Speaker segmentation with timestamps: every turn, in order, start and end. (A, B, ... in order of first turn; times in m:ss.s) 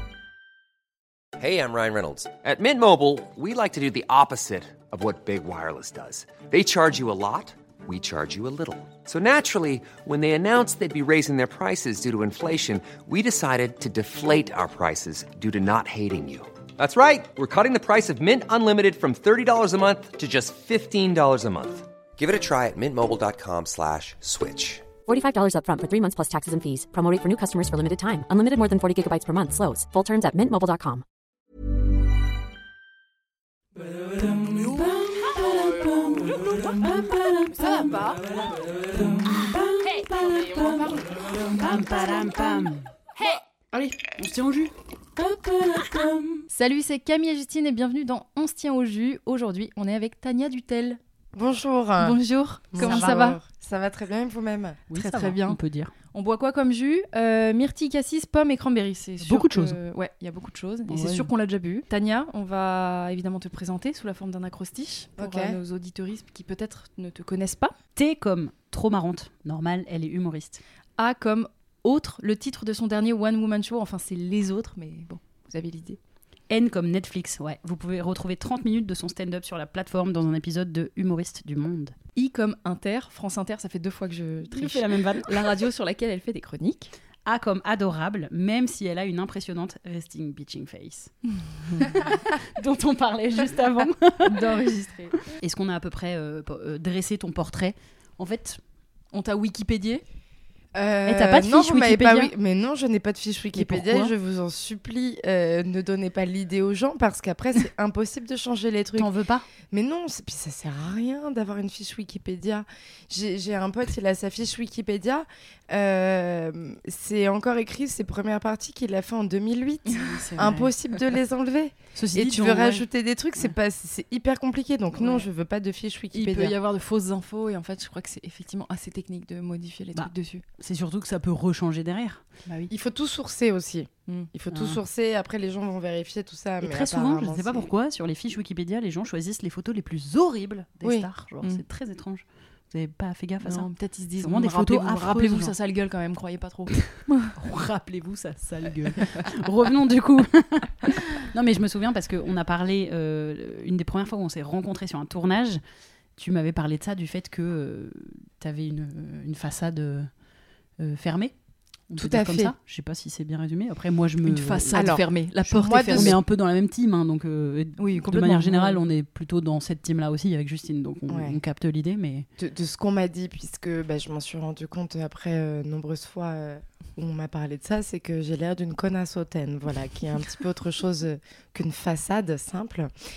0:01.4-0:24.9 A
0:25.1-0:31.0 B
0:34.1-0:42.9 C
0:37.6-0:38.2 D
0:44.1-0:46.5 C
0:46.5-0:51.0 D
0:51.3-0:52.2 E
0:52.0-0:53.4 D
0:52.7-0:54.9 E
0:52.8-0:53.3 C
0:54.9-0:55.9 C
0:54.9-0:55.6 D
0:56.1-1:07.8 D
0:59.2-0:59.8 C
1:00.9-1:01.3 C
1:05.2-1:05.6 E
1:08.0-1:10.6 C
1:11.0-1:16.0 D
1:16.5-1:21.9 C
1:22.2-1:26.9 D
1:24.5-1:25.4 C
1:27.3-1:31.1 C
1:31.8-1:34.4 C
1:34.3-1:35.2 D
1:35.3-1:38.6 C
1:39.1-1:40.0 D
1:40.8-1:49.1 E
1:41.1-1:42.3 C
1:43.6-1:44.1 D
1:49.0-1:49.5 C
1:49.7-2:06.6 E
1:59.9-2:00.3 D
1:59.9-2:00.7 C
2:02.0-2:02.8 C
2:05.0-2:05.2 D
2:06.1-2:10.4 D
2:10.0-2:12.4 C
2:12.7-2:17.7 E
2:14.5-2:14.8 C
2:16.6-2:23.7 C
2:23.4-2:27.3 D
2:24.2-2:25.5 C
2:26.8-2:35.6 C
2:36.2-2:40.1 C
2:40.8-2:41.3 C
2:41.9-2:44.8 C
2:42.0-2:42.5 E
2:44.2-2:46.2 D
2:44.7-2:46.2 E
2:45.9-2:52.3 C
2:47.8-2:48.8 D
2:51.1-2:51.4 E
2:52.4-3:02.9 E